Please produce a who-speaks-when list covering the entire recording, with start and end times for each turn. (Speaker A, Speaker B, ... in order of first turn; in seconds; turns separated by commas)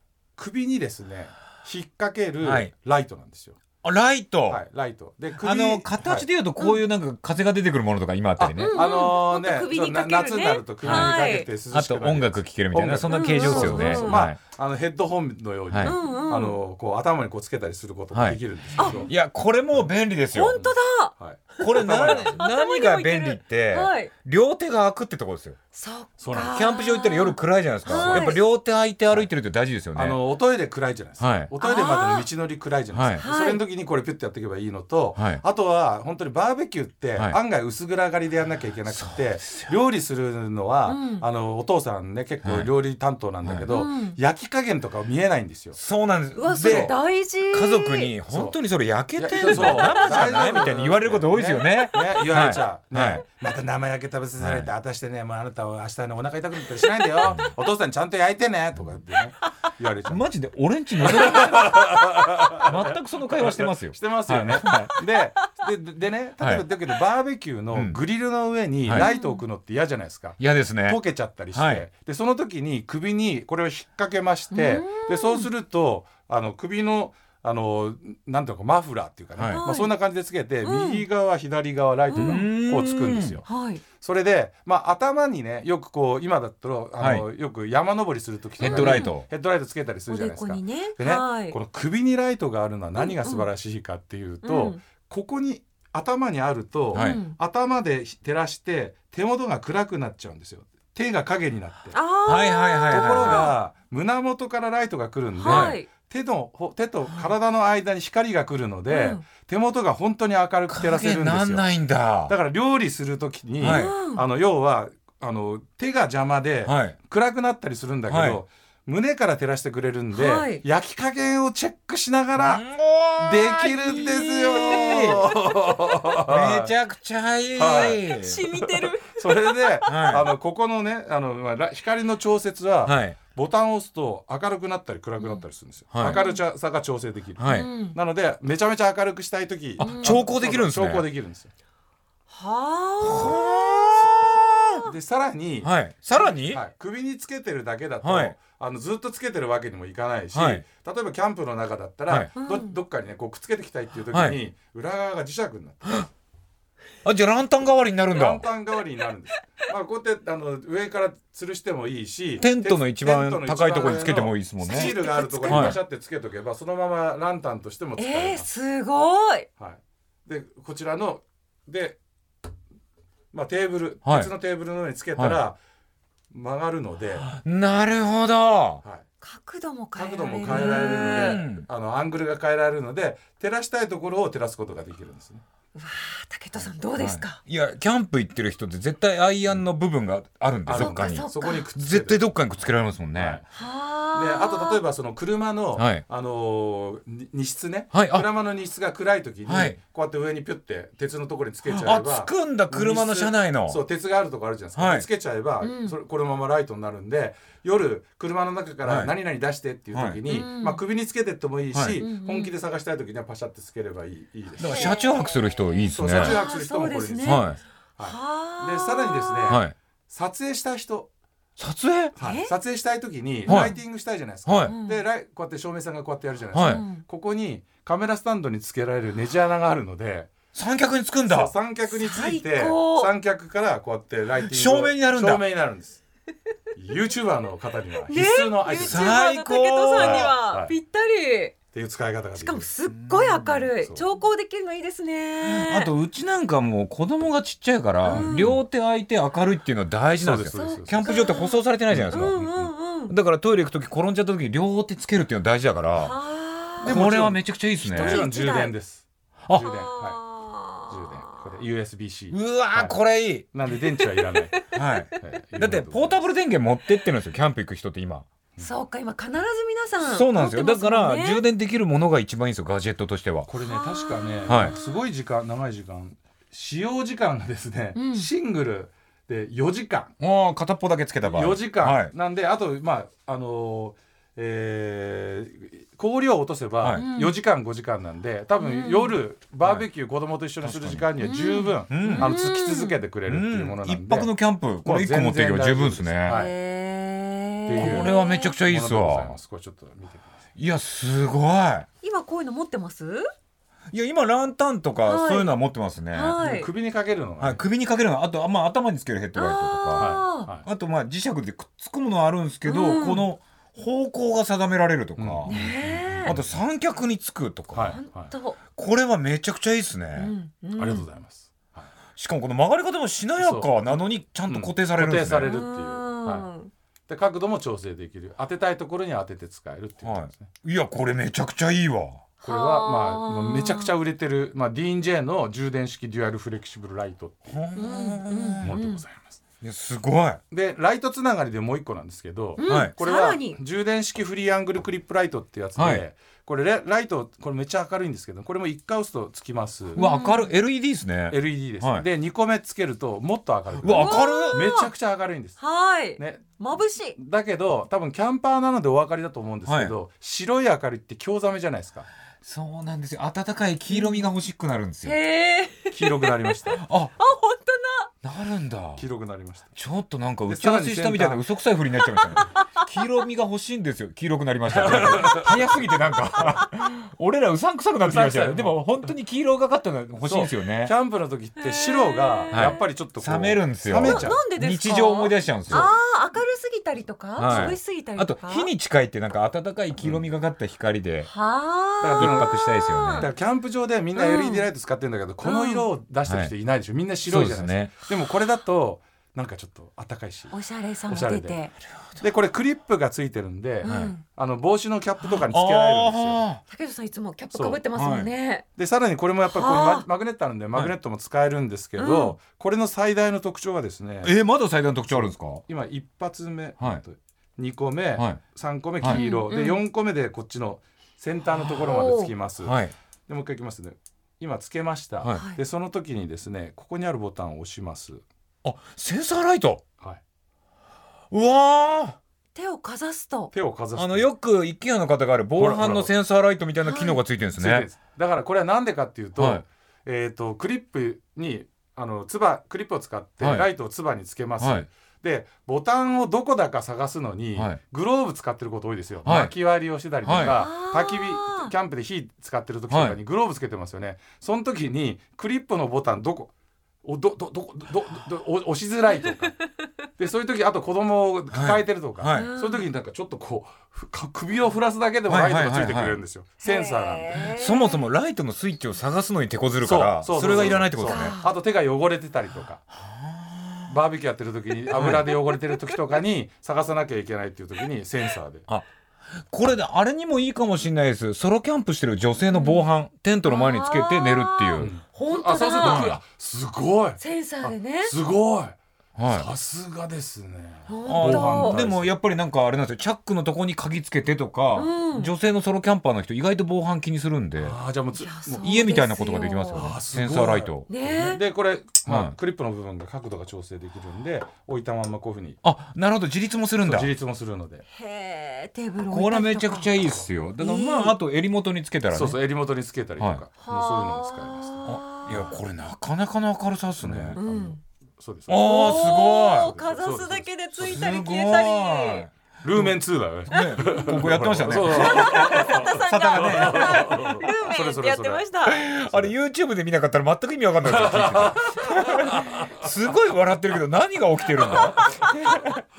Speaker A: 0.4-3.6, Speaker B: 2.4-2.7, Speaker B: 3.8-4.6, Speaker A: 4.5-6.3, Speaker B: 5.4-8.8, Speaker A: 8.4-19.1, Speaker C: 8.6-11.5, Speaker B: 10.8-14.4, Speaker C: 13.1-14.2, Speaker B: 15.7-16.0, Speaker C: 15.8-16.6, Speaker B: 18.1-20.6, Speaker C: 18.8-19.1, Speaker C: 20.3-24.1, Speaker A: 20.6-22.4, Speaker B: 21.6-25.6, Speaker C: 25.7-28.4, Speaker A: 26.2-26.6, Speaker B: 26.4-30.2, Speaker A: 27.9-28.4, Speaker A: 29.9-45.8, Speaker B: 31.2-31.5, Speaker C: 31.6-32.3, Speaker B: 32.9-33.2, Speaker C: 33.2-33.6, Speaker B: 35.2-35.4, Speaker B: 38.9-39.7, Speaker C: 40.9-41.2, Speaker B: 42.4-42.7, Speaker B: 43.4-43.7, Speaker C: 43.7-44.2, Speaker B: 45.8-47.0, Speaker C: 46.4-48.1, Speaker A: 46.6-46.9, Speaker B: 47.5-53.2, Speaker A: 48.3-48.6, Speaker A: 49.1-60.3, Speaker C: 49.5-49.9, Speaker B: 54.4-54.7, Speaker B: 60.1-65.0, Speaker A: 61.0-102.0, Speaker B: 67.7-68.0, Speaker B: 68.8-69.1, Speaker C: 68.9-69.4, Speaker B: 70.4-71.0, Speaker B: 71.5-71.9, Speaker C: 74.5-75.5, Speaker B: 79.4-79.6, Speaker C: 79.5-79.9, Speaker C: 80.6-81.0, Speaker C: 82.1-82.4, Speaker B: 82.2-83.4, Speaker C: 83.5-83.8, Speaker B: 87.0-87.2, Speaker B: 88.6-89.3, Speaker C: 88.6-89.2, Speaker C: 90.1-91.6, Speaker C: 93.0-93.5, Speaker C: 94.4-94.8, Speaker B: 96.9-97.2, Speaker C: 96.9-97.4, Speaker C: 101.9-103.5, Speaker B: 102.3-103.5, Speaker A: 102.9-111.7, Speaker C: 105.4-105.9, Speaker B: 105.5-105.8, Speaker C: 108.9-109.2, Speaker B: 110.7-112.3, Speaker A: 112.3-122.6, Speaker B: 113.6-114.0, Speaker C: 113.6-114.2, Speaker B: 116.7-117.0, Speaker B: 118.1-118.4, Speaker C: 120.1-120.6, Speaker B: 122.4-125.3, Speaker A: 123.2-126.7, Speaker C: 124.6-125.2, Speaker B: 126.2-128.5, Speaker A: 127.5-141.5, Speaker C: 127.7-130.1, Speaker B: 129.9-130.3, Speaker B: 132.8-133.2, Speaker B: 135.9-136.2, Speaker C: 136.0-136.4, Speaker B: 137.4-137.7, Speaker C: 137.5-138.0, Speaker C: 139.8-140.2, Speaker B: 139.8-141.1, Speaker C: 142.3-143.9, Speaker B: 143.0-144.9, Speaker A: 144.8-156.1, Speaker B: 145.6-146.6, Speaker B: 148.0-148.3, Speaker B: 150.3-150.6, Speaker C: 152.4-152.8, Speaker B: 154.1-154.4, Speaker B: 157.0-158.5, Speaker A: 158.1-168.5, Speaker B: 162.4-165.8, Speaker C: 164.7-165.8, Speaker C: 168.0-169.5, Speaker A: 169.6-172.0, Speaker A: 173.3-175.6, Speaker B: 174.1-174.3, Speaker A: 176.3-177.3, Speaker B: 177.2-178.8, Speaker C: 179.2-181.4, Speaker A: 180.0-185.4, Speaker B: 180.5-181.7, Speaker C: 185.8-187.4, Speaker B: 187.0-193.4, Speaker A: 190.7-192.2, Speaker C: 190.7-191.6, Speaker A: 193.2-193.5, Speaker C: 193.5-194.8, Speaker A: 194.1-215.0, Speaker B: 195.8-196.0, Speaker B: 197.9-198.3, Speaker B: 199.5-199.8, Speaker B: 201.7-203.8, Speaker B: 204.8-205.1, Speaker C: 205.6-205.9, Speaker B: 208.8-209.1, Speaker B: 209.9-210.2, Speaker C: 210.3-210.8, Speaker B: 211.7-212.0, Speaker C: 212.0-212.5, Speaker B: 214.6-216.4, Speaker C: 214.6-215.5, Speaker A: 215.9-221.1, Speaker C: 216.1-217.5, Speaker B: 217.2-217.6, Speaker C: 218.0-219.6, Speaker B: 219.5-219.8, Speaker B: 221.6-222.2, Speaker A: 222.2-230.3, Speaker C: 222.2-222.5, Speaker C: 223.5-223.8, Speaker B: 223.5-223.8, Speaker B: 224.5-224.7, Speaker C: 224.7-225.0, Speaker B: 226.5-226.8, Speaker C: 226.6-227.0, Speaker B: 230.5-231.5, Speaker A: 231.3-236.0, Speaker C: 231.9-233.1, Speaker B: 234.4-235.4, Speaker A: 236.8-239.2, Speaker C: 238.1-241.6, Speaker B: 238.7-240.3, Speaker A: 239.9-240.8, Speaker A: 241.7-242.7, Speaker C: 242.4-245.9, Speaker B: 242.9-243.7, Speaker B: 245.4-252.5, Speaker C: 248.1-248.6, Speaker A: 248.1-248.6, Speaker A: 250.2-251.2, Speaker C: 250.5-253.1, Speaker A: 251.9-252.5, Speaker B: 253.1-256.2, Speaker C: 256.0-257.0, Speaker B: 256.8-258.3, Speaker A: 256.8-260.2, Speaker C: 257.9-258.7, Speaker C: 259.6-261.4, Speaker A: 260.9-263.0, Speaker B: 262.3-263.5, Speaker A: 263.5-264.6, Speaker C: 264.2-265.2, Speaker B: 264.7-268.3, Speaker A: 265.2-266.2, Speaker C: 268.6-271.4, Speaker B: 270.0-273.5, Speaker A: 273.5-280.1, Speaker C: 273.6-275.0, Speaker B: 274.5-274.7, Speaker C: 278.0-278.3, Speaker B: 280.2-282.1, Speaker A: 281.3-296.5, Speaker B: 286.8-287.1, Speaker C: 286.9-287.4, Speaker C: 288.6-289.2, Speaker B: 289.6-289.9, Speaker B: 290.6-291.1, Speaker C: 291.2-293.0, Speaker B: 291.9-292.4, Speaker B: 293.3-296.4, Speaker C: 296.3-298.6, Speaker A: 297.7-300.4, Speaker B: 297.8-299.4, Speaker B: 300.6-301.9, Speaker C: 302.0-303.3, Speaker B: 303.9-306.4, Speaker C: 305.1-305.5, Speaker C: 306.1-306.7, Speaker A: 306.4-307.6, Speaker B: 307.4-315.6, Speaker C: 309.4-310.5, Speaker A: 310.0-310.7, Speaker C: 312.6-313.2, Speaker A: 315.2-316.5, Speaker C: 315.5-316.4, Speaker B: 316.2-318.0, Speaker A: 317.7-318.3, Speaker C: 317.9-318.6, Speaker B: 318.7-320.3, Speaker C: 320.2-321.1, Speaker A: 320.8-321.9, Speaker B: 322.2-325.5, Speaker A: 323.4-323.7, Speaker A: 324.5-326.5, Speaker C: 325.4-326.7, Speaker A: 327.1-330.5, Speaker B: 330.0-332.2, Speaker C: 332.4-333.9, Speaker A: 332.4-337.6, Speaker B: 337.5-338.8, Speaker C: 337.8-339.0, Speaker A: 338.6-339.4, Speaker B: 339.6-340.4, Speaker A: 340.5-350.0, Speaker C: 342.6-343.6, Speaker B: 342.6-342.9, Speaker B: 345.8-346.0, Speaker B: 350.0-352.1, Speaker C: 350.0-350.5, Speaker A: 351.3-355.6, Speaker B: 353.8-354.7, Speaker C: 353.9-354.9, Speaker C: 355.6-357.2, Speaker A: 356.2-356.6, Speaker A: 357.1-362.1, Speaker B: 359.7-359.9, Speaker B: 362.4-365.2, Speaker C: 363.9-364.3, Speaker C: 365.0-366.4, Speaker A: 365.9-366.8, Speaker B: 366.8-367.1, Speaker C: 367.2-368.1, Speaker B: 368.2-369.0, Speaker A: 369.0-369.7, Speaker B: 369.8-380.9, Speaker A: 370.5-371.4, Speaker A: 374.7-375.5, Speaker A: 378.0-378.8, Speaker A: 380.2-384.4, Speaker C: 381.6-382.8, Speaker B: 382.5-385.9, Speaker C: 384.0-388.7, Speaker B: 387.4-391.3, Speaker A: 387.5-387.8, Speaker A: 390.0-390.2, Speaker C: 391.3-393.3, Speaker A: 392.0-392.6, Speaker B: 392.2-393.3, Speaker A: 393.1-400.6, Speaker C: 394.2-394.7, Speaker C: 395.4-395.9, Speaker B: 396.3-396.5, Speaker B: 397.3-398.0, Speaker C: 400.5-401.7, Speaker A: 401.1-401.6, Speaker B: 401.9-402.2, Speaker A: 402.2-406.4, Speaker C: 403.8-404.2, Speaker B: 403.8-404.1, Speaker B: 405.5-406.6, Speaker C: 406.7-408.7, Speaker A: 407.5-407.8, Speaker B: 407.9-408.3, Speaker A: 408.8-414.4, Speaker C: 409.5-410.1, Speaker C: 412.0-412.4, Speaker B: 414.2-415.6, Speaker A: 415.1-422.8, Speaker C: 419.1-419.8, Speaker C: 421.7-422.3, Speaker B: 422.6-422.9, Speaker A: 423.3-428.2, Speaker C: 425.3-425.6, Speaker B: 428.6-429.8, Speaker B: 431.3-432.2, Speaker C: 432.6-433.5, Speaker A: 433.5-434.3, Speaker B: 434.0-437.9, Speaker A: 435.6-436.1, Speaker C: 436.8-437.2, Speaker A: 437.6-456.5, Speaker B: 439.4-439.6, Speaker B: 443.4-443.7, Speaker B: 444.6-444.9, Speaker B: 449.2-449.5, Speaker B: 450.2-450.6, Speaker C: 450.4-451.7, Speaker B: 452.9-453.2, Speaker A: 457.0-459.6, Speaker A: 460.2-467.5, Speaker B: 461.5-462.5, Speaker C: 462.3-462.9, Speaker B: 465.3-466.2, Speaker C: 466.6-467.9, Speaker B: 467.5-471.4, Speaker A: 469.8-472.8, Speaker C: 470.6-471.5, Speaker B: 472.9-473.9, Speaker A: 473.9-478.6, Speaker B: 474.9-475.4, Speaker B: 479.5-484.9, Speaker C: 482.5-482.9, Speaker C: 483.4-486.1, Speaker A: 484.8-492.1, Speaker B: 485.8-486.2, Speaker C: 487.2-488.1, Speaker B: 489.2-489.5, Speaker C: 490.9-491.8, Speaker B: 491.1-497.8, Speaker C: 494.7-495.3, Speaker A: 497.6-498.8, Speaker C: 498.2-500.0, Speaker B: 498.6-500.9, Speaker A: 499.7-505.6, Speaker C: 500.9-501.4, Speaker B: 502.1-502.4, Speaker B: 505.6-507.1, Speaker A: 506.8-507.8, Speaker C: 507.9-509.9, Speaker B: 509.1-512.4, Speaker C: 510.6-511.2, Speaker A: 512.1-514.9, Speaker C: 513.6-515.5, Speaker B: 514.9-517.4, Speaker A: 517.0-521.0, Speaker C: 517.4-517.8, Speaker B: 518.5-519.7, Speaker C: 518.6-522.3, Speaker B: 520.8-527.3, Speaker A: 522.6-528.4, Speaker C: 523.5-524.2, Speaker C: 524.8-528.9, Speaker B: 528.7-535.8, Speaker A: 529.0-529.3, Speaker A: 530.9-532.9, Speaker A: 534.6-535.7